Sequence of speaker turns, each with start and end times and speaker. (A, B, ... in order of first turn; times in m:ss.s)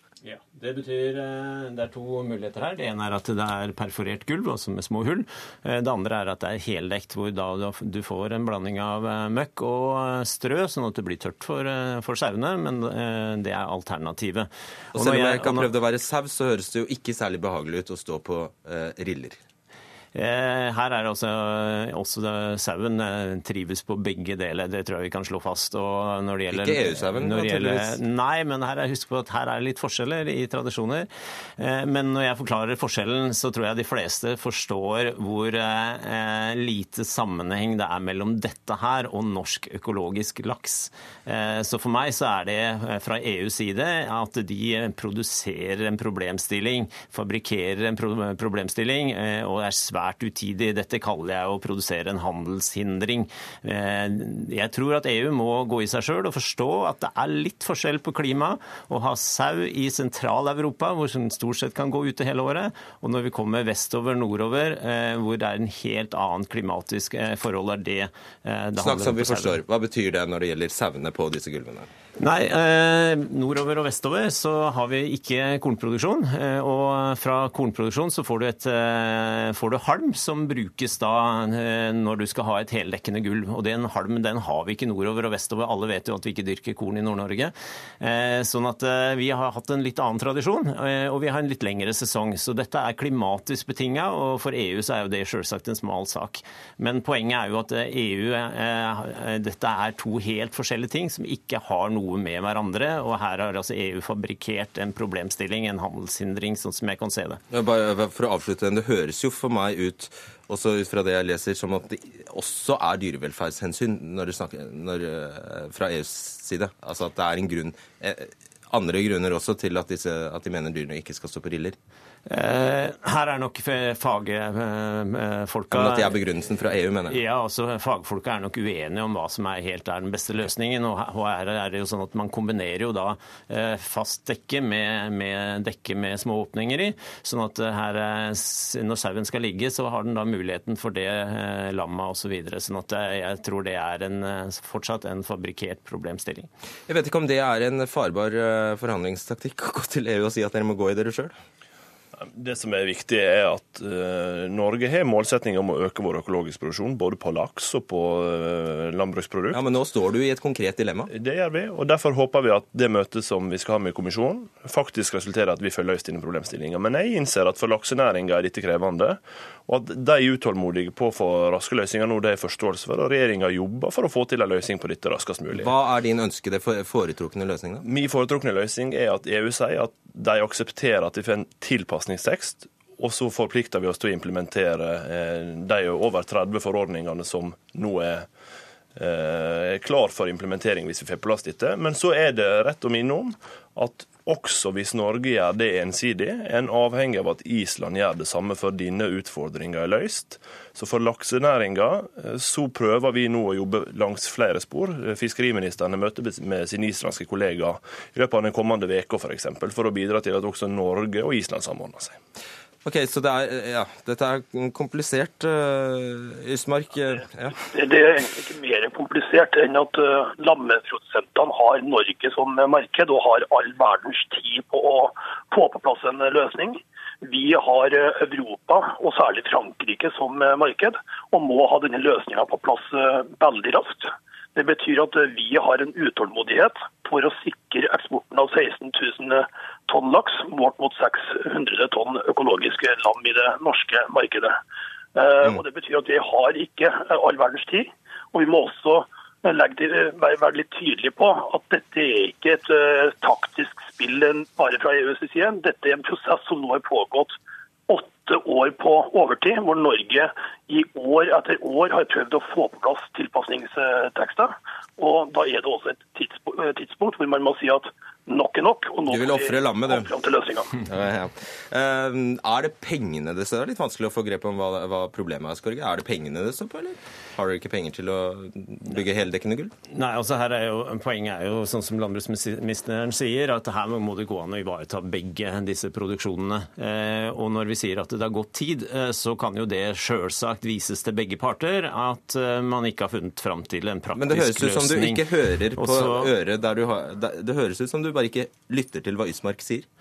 0:00.2-0:15.7 A
0:14.9-0:19.4 B
0:20.1-1:09.6 A
0:26.5-0:28.0 B
1:08.8-1:11.9 B
1:12.2-1:47.4 A
1:47.5-2:01.8 B
2:02.3-2:06.2 A
2:05.7-2:07.2 B
2:07.1-2:26.5 A
2:26.9-2:31.3 B
2:32.1-2:39.6 C
2:39.5-2:41.1 B
2:41.1-2:55.7 C
2:55.5-2:57.8 B
2:57.8-3:08.3 C
3:08.9-3:32.2 C
3:32.8-3:37.6 B
3:37.7-4:04.5 D
4:05.1-4:17.3 D
4:17.9-4:30.8 D
4:29.1-4:30.1 B
4:30.8-4:39.7 B
4:39.9-4:56.3 A
4:54.1-4:59.8 B